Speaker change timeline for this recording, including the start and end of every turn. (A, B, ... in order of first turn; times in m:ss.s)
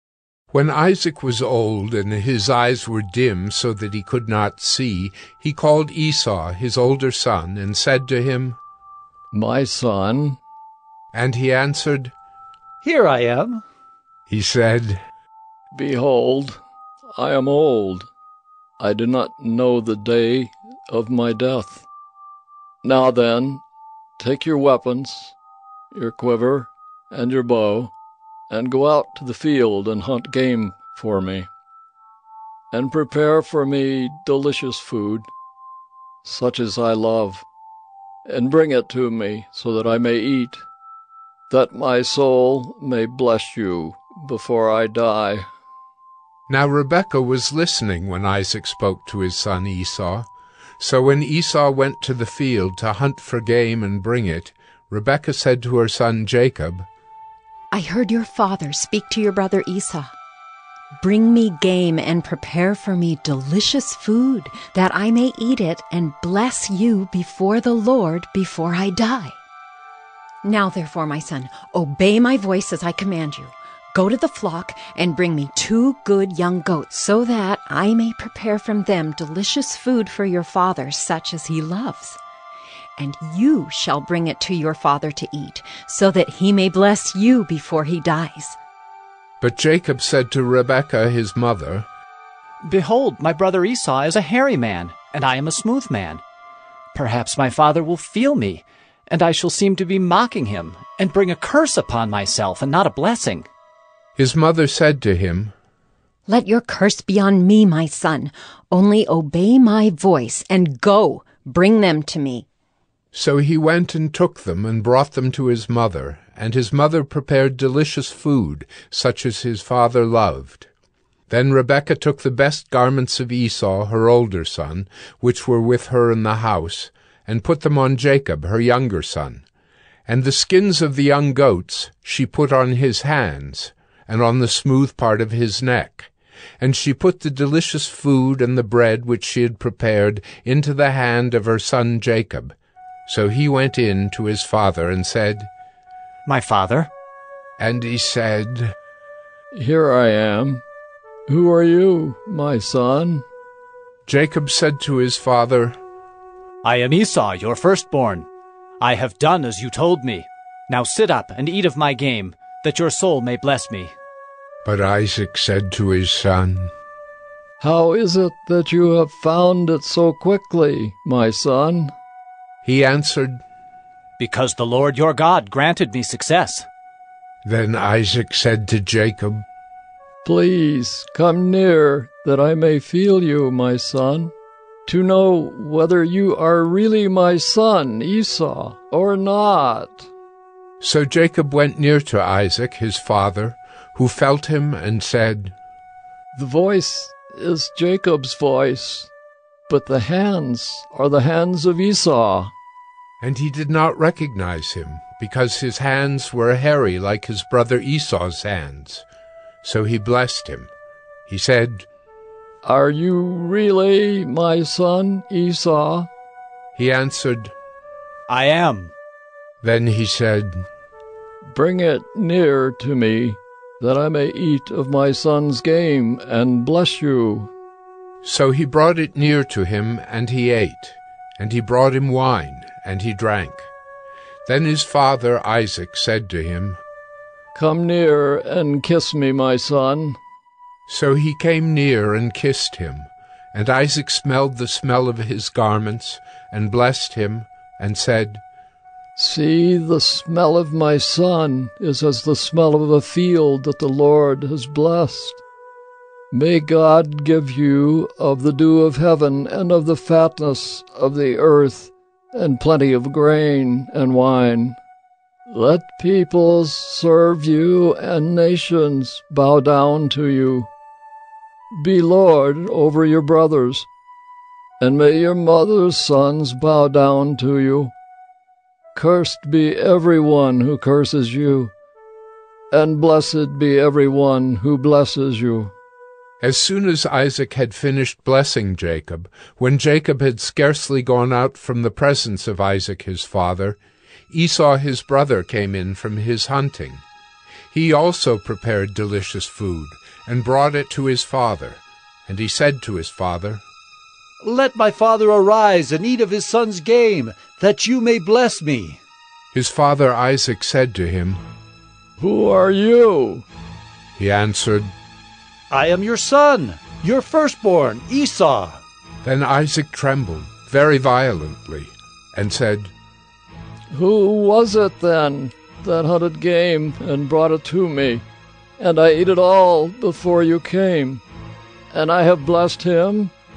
0:00.5-0:08.6 A
0:09.3-0:10.4 B
0:11.1-0:12.1 A
0:12.8-0:13.6 C
0:14.3-0:15.0 A
0:15.7-0:16.6 B
0:17.1-0:18.1 B
0:18.8-0:21.8 B
0:22.8-0:23.6 B
0:24.2-0:25.4 B
0:25.9-0:27.9 B
0:28.5-0:31.5 B
0:32.7-0:35.3 B
0:36.2-0:37.4 B
0:38.2-0:40.6 B
0:41.5-0:45.5 B
0:46.5-0:50.3 A
0:50.8-0:56.9 A
0:57.7-1:00.1 D
1:01.0-1:09.4 D
1:10.4-1:22.2 D
1:23.0-1:28.6 D
1:29.4-1:31.9 A
1:32.6-1:36.2 E
1:36.9-1:43.5 E
1:44.2-1:45.5 A
1:46.3-1:52.4 D
1:53.1-2:00.7 A
2:01.3-2:09.4 A
2:10.0-2:22.5 A
2:23.1-2:25.5 A
2:26.2-2:26.9 E
2:27.6-2:28.7 A
2:29.5-2:30.6 B
2:31.3-2:33.2 B
2:34.0-2:35.8 A
2:36.6-2:38.3 E
2:38.8-2:43.9 E
2:44.6-2:46.7 A
2:47.6-2:51.9 B
2:52.6-2:53.4 A
2:54.2-2:56.7 E
2:57.4-2:59.4 A
3:00.2-3:04.3 B
3:04.8-3:10.1 B
3:10.8-3:15.5 A
3:16.3-3:19.1 B
3:19.7-3:22.5 B
3:23.2-3:29.0 A
3:29.6-3:30.7 A
3:31.3-3:31.9 A
3:32.6-3:36.1 B
3:36.7-3:37.5 A
3:38.3-3:38.9 E
3:39.6-3:40.6 A
3:41.4-3:47.5 B
3:48.2-3:53.7 A
3:54.4-3:56.8 A
3:57.5-4:00.2 B
4:00.9-4:08.4 A
4:09.2-4:15.4 B
4:16.3-4:24.8 B
4:25.5-4:30.7 B
4:31.7-4:33.9 B
4:34.8-4:37.9 B
4:38.9-4:41.7 B
4:42.7-4:45.7 B
4:46.4-4:53.8 A
4:54.3-4:57.0 A
4:57.7-5:03.6 A
5:04.4-5:09.0 C
5:09.5-5:11.4 A
5:12.2-5:13.4 B
5:14.2-5:14.9 A
5:15.7-5:18.8 C
5:19.2-5:22.9 A
5:23.9-5:28.2 B
5:28.8-5:31.2 B
5:31.9-5:33.3 B